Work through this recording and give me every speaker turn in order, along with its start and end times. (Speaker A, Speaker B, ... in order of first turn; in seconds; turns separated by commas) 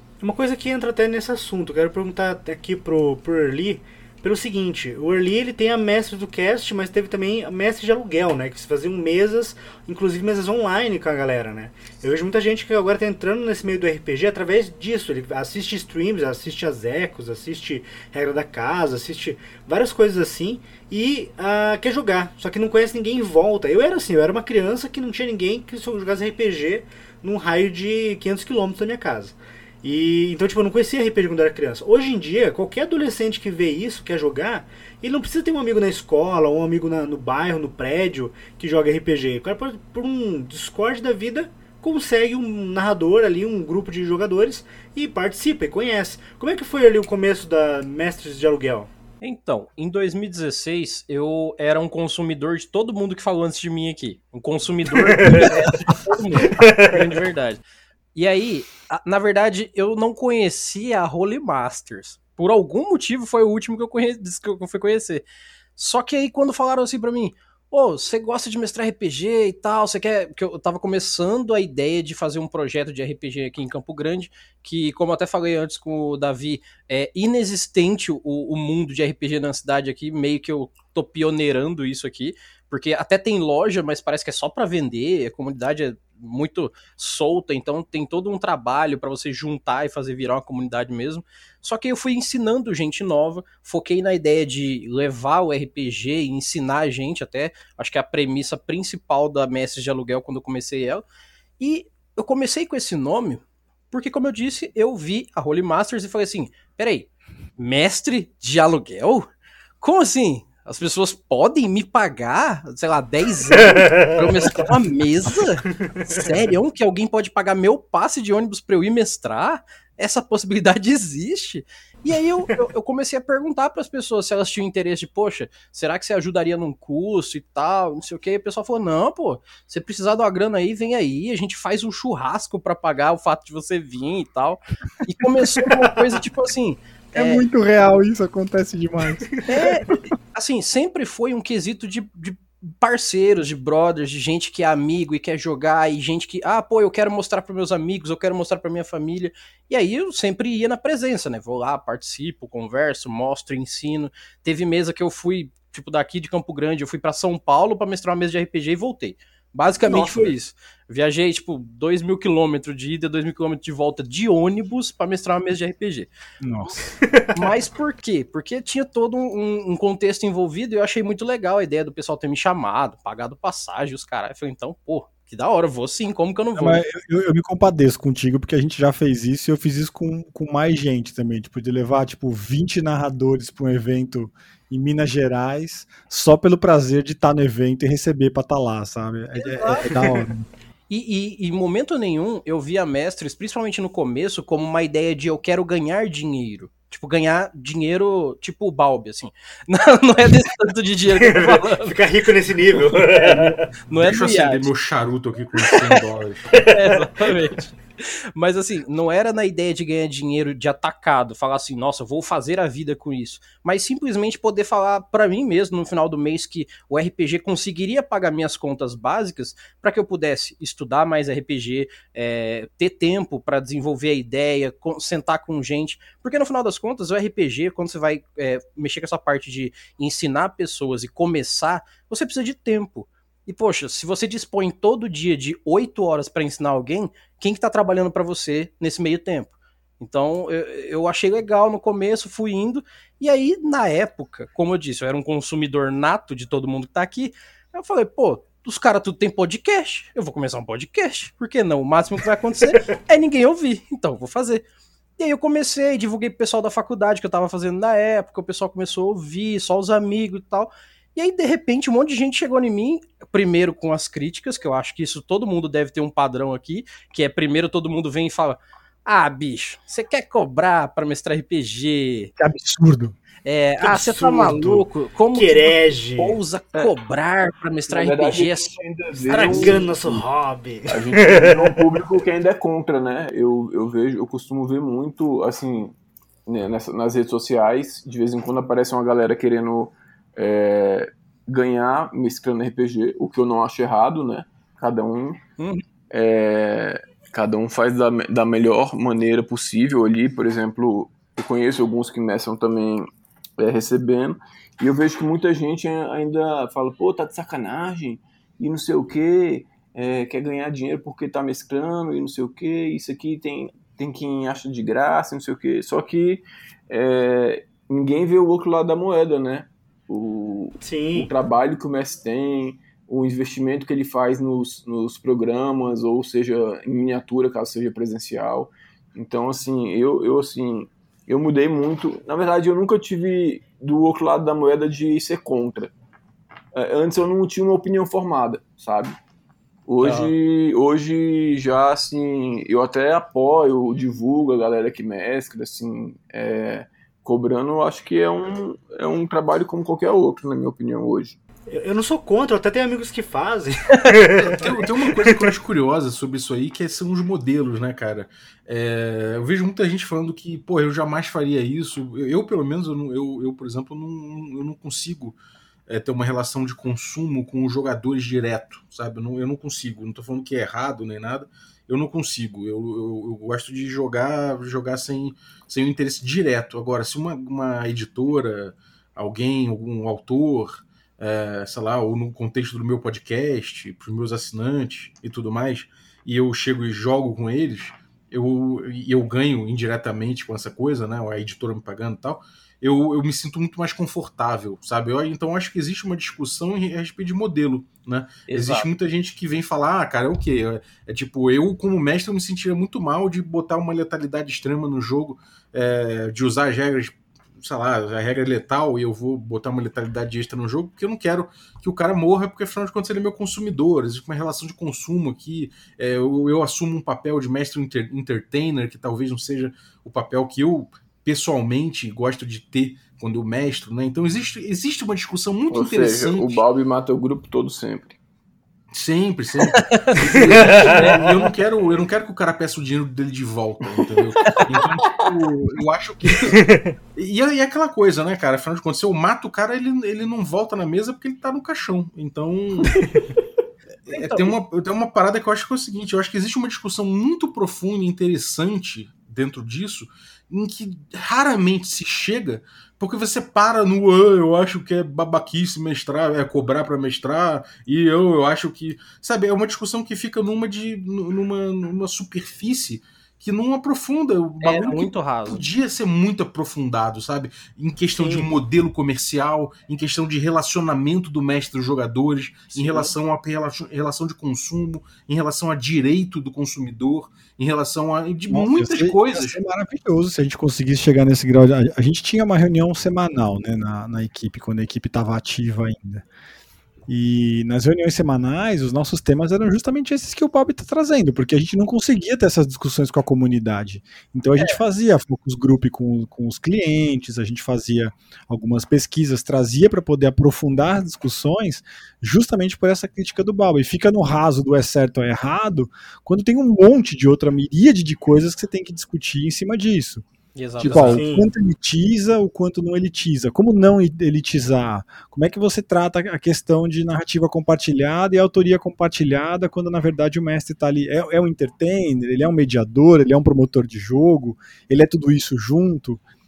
Speaker A: 0.2-48.9, Speaker B: 49.2-57.6, Speaker A: 55.1-55.6, Speaker A: 56.5-56.9, Speaker B: 58.1-65.2, Speaker B: 65.8-101.0, Speaker B: 101.6-109.3, Speaker B: 109.8-137.4, Speaker A: 113.8-114.2, Speaker A: 116.0-116.2, Speaker C: 137.2-139.3, Speaker B: 139.5-166.1, Speaker C: 159.8-160.3, Speaker C: 166.4-166.8, Speaker A: 167.0-167.3, Speaker B: 167.3-176.8, Speaker C: 176.6-190.5, Speaker B: 189.4-189.9, Speaker B: 190.9-202.0, Speaker A: 201.1-203.6, Speaker B: 203.0-204.7, Speaker D: 203.9-206.6, Speaker B: 205.6-206.0, Speaker B: 206.5-254.7, Speaker B: 255.2-272.3, Speaker C: 272.4-273.2, Speaker B: 273.4-279.8, Speaker A: 273.8-276.4, Speaker E: 277.9-280.2, Speaker A: 279.3-281.8, Speaker E: 280.9-285.9, Speaker E: 286.5-295.4, Speaker B: 295.6-295.8, Speaker E: 296.1-303.1, Speaker E: 303.6-335.9, Speaker A: 320.8-321.3, Speaker E: 336.7-339.2, Speaker E: 339.9-351.4, Speaker B: 340.0-340.4, Speaker A: 351.7-354.8, Speaker D: 354.2-365.4, Speaker D: 365.9-426.6, Speaker B: 398.5-398.9, Speaker E: 425.7-428.2, Speaker D: 428.9-443.1, Speaker B: 429.8-430.6, Speaker E: 430.2-431.2, Speaker E: 434.6-435.3, Speaker A: 436.6-436.9, Speaker D: 444.1-479.6, Speaker B: 444.1-444.5, Speaker B: 464.6-465.6, Speaker B: 472.7-473.1, Speaker C: 478.5-486.2, Speaker C: 487.1-510.2, Speaker B: 510.6-511.2, Speaker C: 510.8-526.2, Speaker A: 510.9-511.5